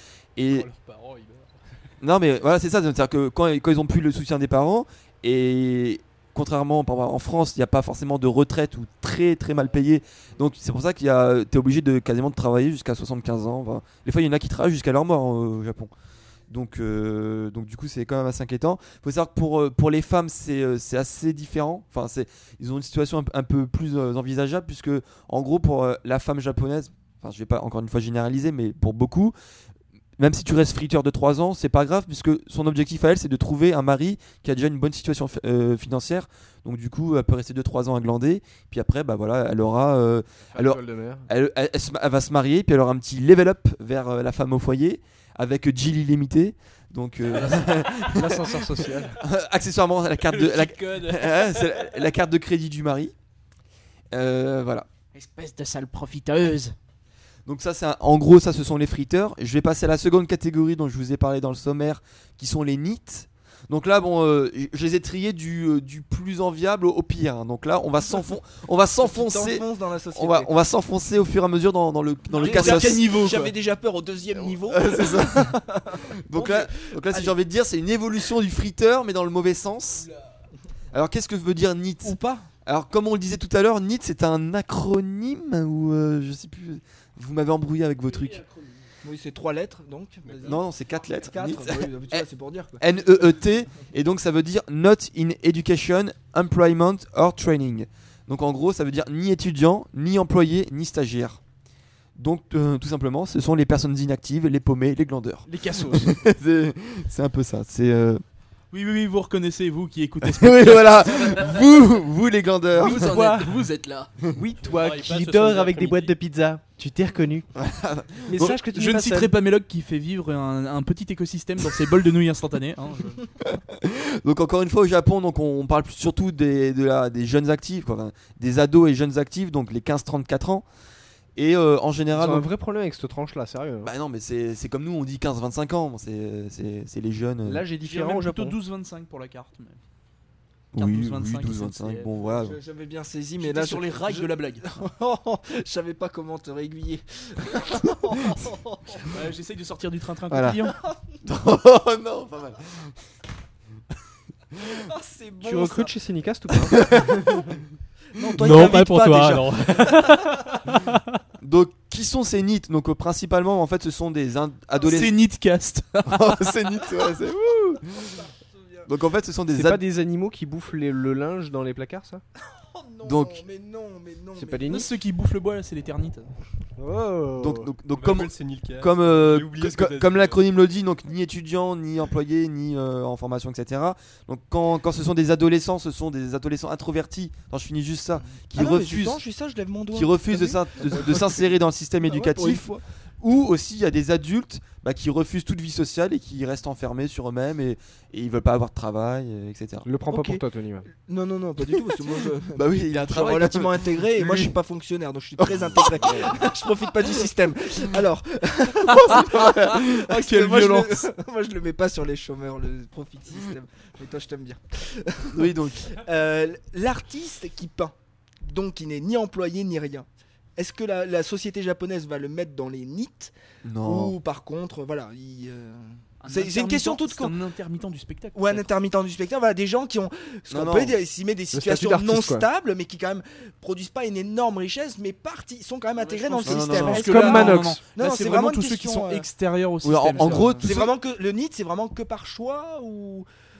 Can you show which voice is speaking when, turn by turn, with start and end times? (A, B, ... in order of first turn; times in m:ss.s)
0:00.4-0:00.7 A
0:00.5-0:01.6 B
0:02.0-0:15.9 A
0:16.5-0:29.3 A
0:30.2-0:53.1 A
0:40.5-0:41.3 C
0:47.4-0:49.2 C
0:50.2-0:52.0 B
0:54.1-0:54.9 A
0:55.2-0:56.7 D
0:57.4-1:13.2 A
1:09.0-1:10.5 E
1:12.3-1:17.4 E
1:12.4-1:13.5 D
1:14.4-1:20.1 A
1:20.9-1:28.4 A
1:22.0-1:22.5 E
1:28.3-1:28.8 B
1:29.0-1:33.2 E
1:30.2-1:30.6 B
1:30.4-1:32.3 A
1:32.8-1:41.4 A
1:42.2-1:48.2 A
1:45.5-1:46.1 D
1:48.7-1:51.6 D
1:50.2-1:53.1 A
1:52.8-1:53.6 C
1:52.8-1:54.1 D
1:54.3-1:57.4 C
1:54.6-1:56.1 B
1:57.5-1:58.6 A
1:58.2-1:59.3 C
1:58.7-2:03.3 D
2:03.4-2:10.6 A
2:11.4-2:12.4 A
2:12.1-2:13.9 C
2:13.8-2:17.6 A
2:17.4-2:18.6 C
2:17.8-2:19.8 D
2:20.7-2:22.6 A
2:20.7-2:22.1 D
2:22.2-2:29.2 E
2:23.4-2:24.7 D
2:29.0-2:30.8 D
2:30.3-2:30.6 A
2:30.7-2:31.0 E
2:31.2-2:32.8 A
2:34.7-2:35.9 E
2:35.4-2:37.3 C
2:36.7-2:37.2 A
2:36.8-2:37.4 E
2:38.1-2:40.1 E
2:38.4-2:40.4 B
2:41.4-2:45.2 A
2:44.8-2:46.6 D
2:46.1-2:48.2 A
2:48.0-2:48.9 E
2:48.8-2:49.8 A
2:49.5-2:52.2 C
2:52.5-2:54.8 E
2:53.0-2:53.4 A
2:54.3-2:54.9 C
2:54.7-2:56.3 D
2:56.8-2:57.7 C
2:57.4-3:09.2 A
2:57.9-3:00.4 B
3:08.5-3:11.5 E
3:09.9-3:12.7 A
3:12.0-3:12.8 E
3:13.2-3:19.9 A
3:19.8-3:20.9 C
3:20.1-3:20.4 E
3:21.0-3:47.4 E
3:21.8-3:24.6 A
3:25.4-3:26.4 A
3:29.0-3:31.0 D
3:35.3-3:35.9 A
3:43.6-3:44.1 A
3:46.2-3:48.6 D
3:48.3-3:59.3 E
3:50.5-3:51.0 A
3:51.5-3:52.4 C
3:56.0-4:00.7 D
3:56.4-3:57.8 A
3:56.9-3:57.8 C
3:59.8-4:00.9 A
4:00.3-4:03.2 E